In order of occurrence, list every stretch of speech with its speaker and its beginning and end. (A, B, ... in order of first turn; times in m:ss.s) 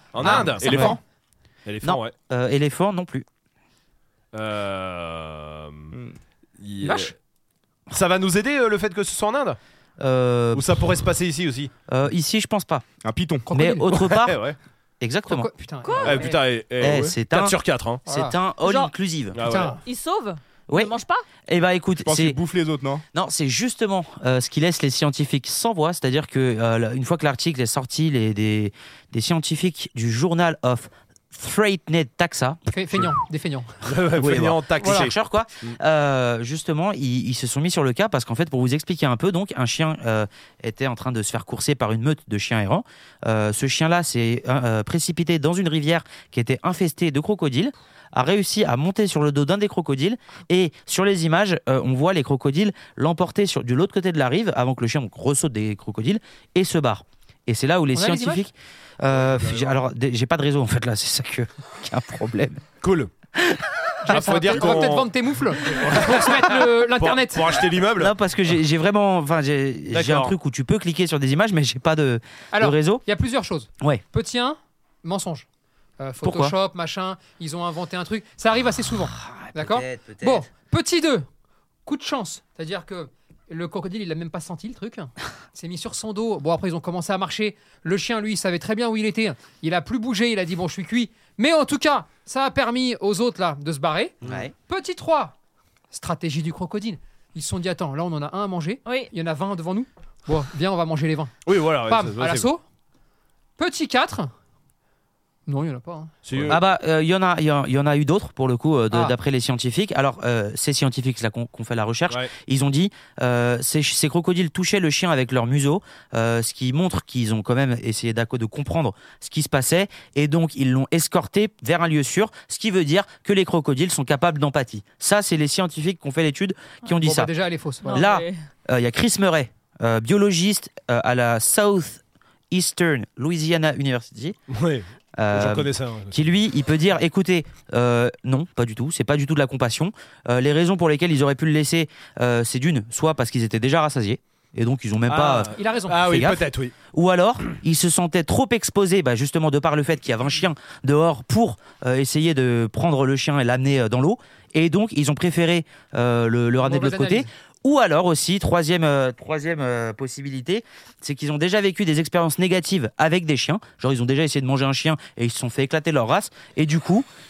0:00.1-0:01.0 A
0:00.2-0:01.0 B
0:00.2-0:01.0 C
0:01.6-0:02.1 A
0:01.8-0:03.3 D
0:04.3-0:05.9 A
0:06.6-0:07.1 A
0:06.8-0:07.1 B
0:07.9-0:09.6 A
0:10.0-0:10.6 D
0:10.5-0:11.7 A
0:11.9-0:12.8 D
0:13.0-0:13.5 C
0:13.5-0:13.8 B
0:13.5-0:14.4 D
0:13.9-0:14.6 A
0:15.0-0:15.5 D
0:15.3-0:16.4 B
0:15.8-0:16.3 E
0:16.0-0:18.0 A
0:16.8-0:19.4 D
0:18.1-0:18.3 B
0:18.6-0:18.9 E
0:19.3-0:19.8 A
0:19.4-0:19.8 B
0:19.8-0:21.2 E
0:20.7-0:20.9 D
0:21.5-0:22.4 D
0:22.0-0:23.0 C
0:23.1-0:33.1 D
0:32.7-0:33.7 B
0:33.8-0:35.1 A
0:34.1-1:02.6 D
0:34.8-0:35.1 B
0:57.9-0:58.4 B
0:59.2-0:59.7 A
1:02.8-1:03.1 A
1:03.4-1:03.6 D
1:04.0-1:07.6 B
1:04.1-1:08.1 A
1:08.0-1:13.0 D
1:09.9-1:10.3 A
1:12.5-1:15.5 B
1:16.0-1:21.2 B
1:16.2-1:16.5 D
1:19.1-1:20.4 D
1:21.8-1:35.3 B
1:34.2-1:34.5 D
1:35.9-1:41.3 B
1:38.8-1:39.1 E
1:41.4-1:42.5 A
1:41.9-1:42.6 B
1:43.6-1:44.3 B
1:45.5-1:46.1 B
1:46.2-1:46.6 A
1:46.4-2:07.3 D
2:07.0-2:08.0 B
2:07.8-2:08.4 E
2:07.9-2:14.4 D
2:14.5-2:16.2 A
2:15.2-2:26.4 D
2:25.1-2:26.7 A
2:25.5-2:26.2 B
2:26.9-2:47.0 D
2:36.6-2:37.3 B